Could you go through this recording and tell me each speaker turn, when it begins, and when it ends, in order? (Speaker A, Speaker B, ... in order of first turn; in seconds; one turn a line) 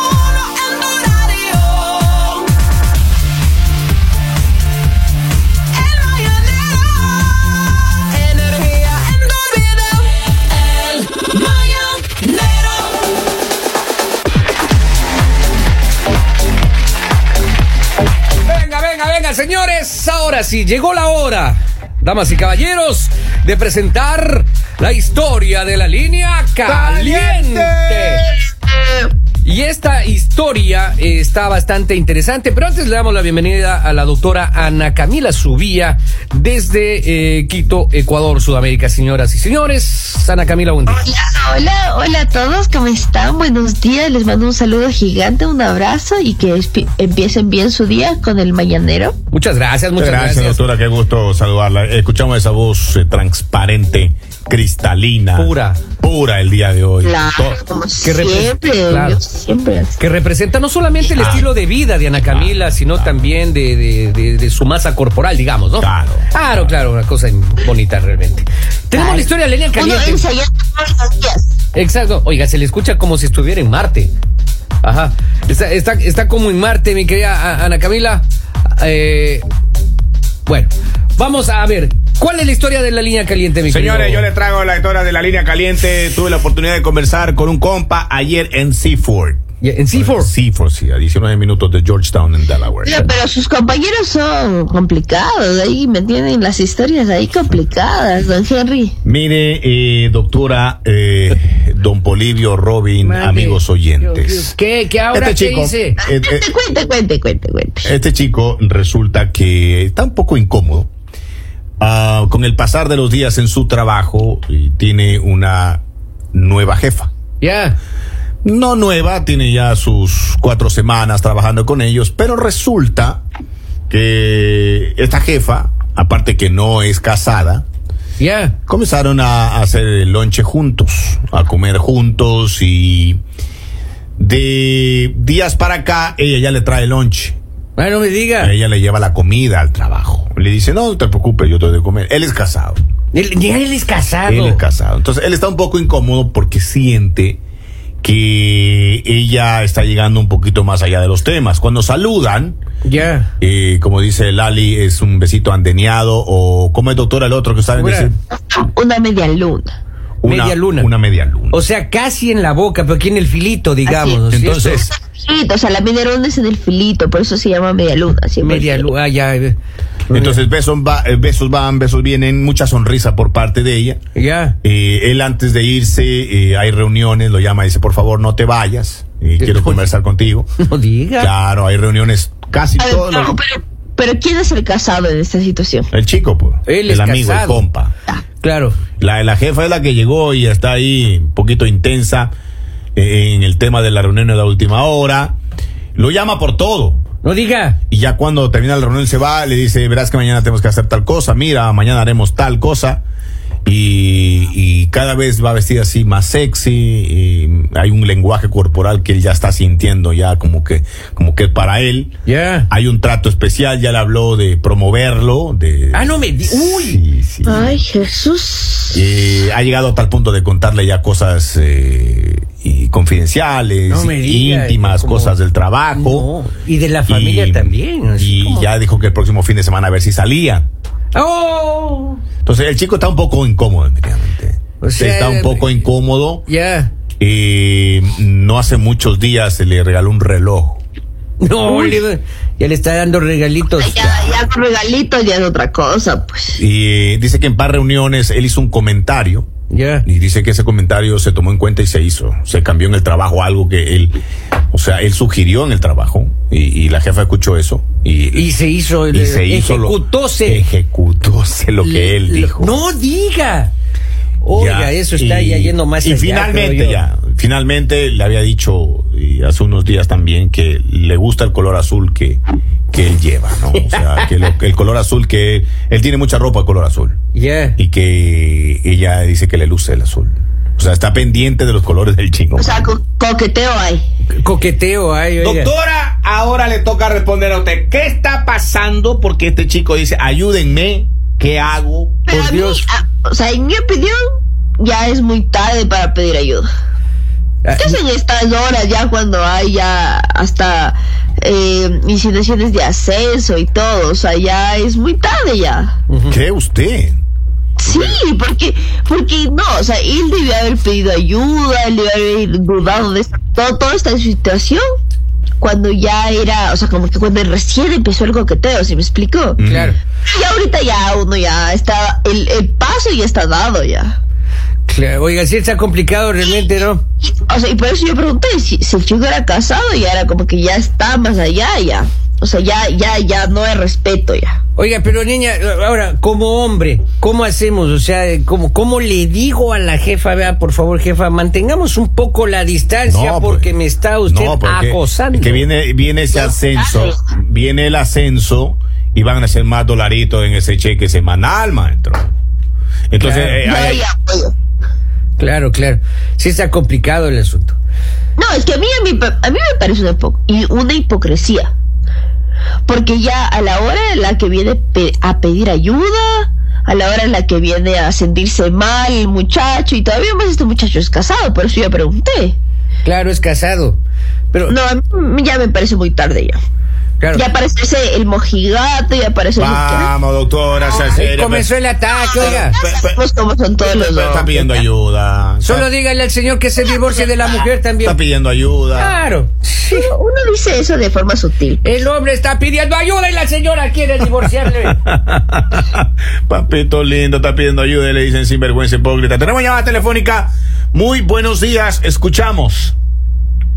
Speaker A: 0.8-1.5
Speaker B: 1.1-1.6
Speaker A: 6.2-6.5
Speaker B: 8.4-8.9
Speaker A: 9.1-9.7
Speaker B: 10.9-12.6
Speaker B: 18.4-28.2
Speaker C: 26.6-28.4
Speaker B: 29.4-41.1
Speaker A: 40.9-49.2
Speaker B: 49.3-50.7
Speaker C: 50.0-57.6
Speaker B: 55.4-55.8
Speaker A: 57.0-60.0
Speaker B: 58.0-59.2
Speaker B: 60.0-70.3
Speaker C: 61.1-61.5
Speaker C: 62.2-63.2
Speaker C: 65.8-66.7
Speaker A: 68.9-71.6
Speaker B: 71.7-74.1
Speaker B: 74.8-79.5
Speaker B: 80.5-84.3
Speaker C: 83.7-93.0
Speaker B: 89.6-90.3
Speaker A: 92.8-99.0
Speaker C: 99.0-104.5
Speaker B: 103.0-106.0
Speaker C: 105.1-106.4
Speaker A: 106.0-107.9
Speaker C: 107.8-110.9
Speaker C: 111.8-115.8
Speaker C: 116.3-117.1
Speaker B: 117.4-117.8
Speaker C: 118.4-123.2
Speaker C: 123.9-127.7
Speaker B: 128.2-128.6
Speaker C: 128.7-133.2
Speaker C: 134.2-137.4
Speaker B: 137.8-138.5
Speaker C: 138.4-142.8
Speaker B: 143.1-144.6
Speaker C: 144.3-147.4
Speaker C: 148.0-152.6
Speaker B: 152.8-153.3
Speaker C: 153.4-158.2
Speaker B: 157.8-158.1
Speaker A: 158.3-159.7
Speaker C: 160.2-161.6
Speaker B: 160.2-160.9
Speaker B: 161.5-164.9
Speaker A: 163.9-164.2
Speaker C: 164.3-164.9
Speaker A: 165.0-168.9
Speaker B: 168.4-169.6
Speaker B: 170.1-170.4
Speaker C: 170.1-174.0
Speaker B: 174.2-174.6
Speaker C: 174.6-180.5
Speaker B: 179.4-179.8
Speaker B: 180.6-181.3
Speaker C: 181.2-183.4
Speaker A: 182.8-185.9
Speaker C: 185.9-187.9
Speaker B: 186.7-187.6
Speaker B: 188.4-188.8
Speaker C: 189.0-192.3
Speaker C: 193.0-195.4
Speaker C: 196.0-197.0
Speaker B: 197.2-197.8
Speaker C: 197.9-203.0
Speaker C: 203.7-212.2
Speaker B: 212.3-212.7
Speaker C: 212.7-217.8
Speaker B: 215.9-217.0
Speaker A: 217.5-219.0
Speaker C: 218.9-226.3
Speaker B: 223.9-225.4
Speaker B: 225.9-228.7
Speaker C: 227.1-230.7
Speaker B: 231.1-232.2
Speaker C: 232.4-236.5
Speaker B: 234.8-235.7
Speaker B: 236.5-236.9
Speaker C: 237.2-240.8
Speaker B: 241.4-244.4
Speaker C: 241.6-242.1
Speaker A: 243.8-246.6
Speaker C: 246.6-249.5
Speaker B: 249.7-250.1
Speaker C: 250.1-254.2
Speaker C: 254.7-258.5
Speaker B: 258.3-260.6
Speaker C: 259.1-262.9
Speaker B: 261.8-263.7
Speaker B: 264.4-267.0
Speaker C: 264.5-277.2
Speaker B: 273.8-274.3
Speaker B: 277.3-277.8
Speaker C: 277.8-282.9
Speaker A: 282.6-284.0
Speaker B: 284.4-285.7
Speaker C: 285.4-292.2
Speaker A: 292.3-294.2
Speaker B: 292.3-292.8
Speaker A: 294.8-296.6
Speaker B: 297.6-298.0
Speaker A: 297.7-305.9
Speaker B: 306.1-306.4
Speaker C: 306.3-307.2
Speaker A: 307.8-314.9
Speaker C: 307.9-308.2
Speaker A: 315.6-319.6
Speaker C: 319.6-319.9
Speaker B: 319.6-320.0
Speaker A: 320.3-324.2
Speaker B: 324.9-327.0
Speaker A: 327.2-334.6
Speaker B: 334.8-345.7
Speaker C: 343.1-343.7
Speaker C: 344.3-352.3
Speaker A: 346.3-347.2
Speaker C: 353.1-354.1
Speaker B: 353.2-353.6
Speaker A: 353.6-354.5
Speaker B: 355.4-357.8
Speaker A: 358.4-361.7
Speaker A: 362.9-372.6
Speaker B: 373.0-374.0
Speaker A: 374.7-376.6
Speaker B: 377.2-377.4
Speaker A: 377.3-380.1
Speaker C: 379.6-381.7
Speaker B: 381.1-382.8
Speaker A: 382.3-384.8
Speaker C: 382.4-383.2
Speaker C: 383.8-385.9
Speaker B: 385.6-388.2
Speaker C: 388.0-389.2
Speaker B: 388.9-390.1
Speaker A: 389.9-391.8
Speaker B: 391.8-395.0
Speaker C: 394.9-402.9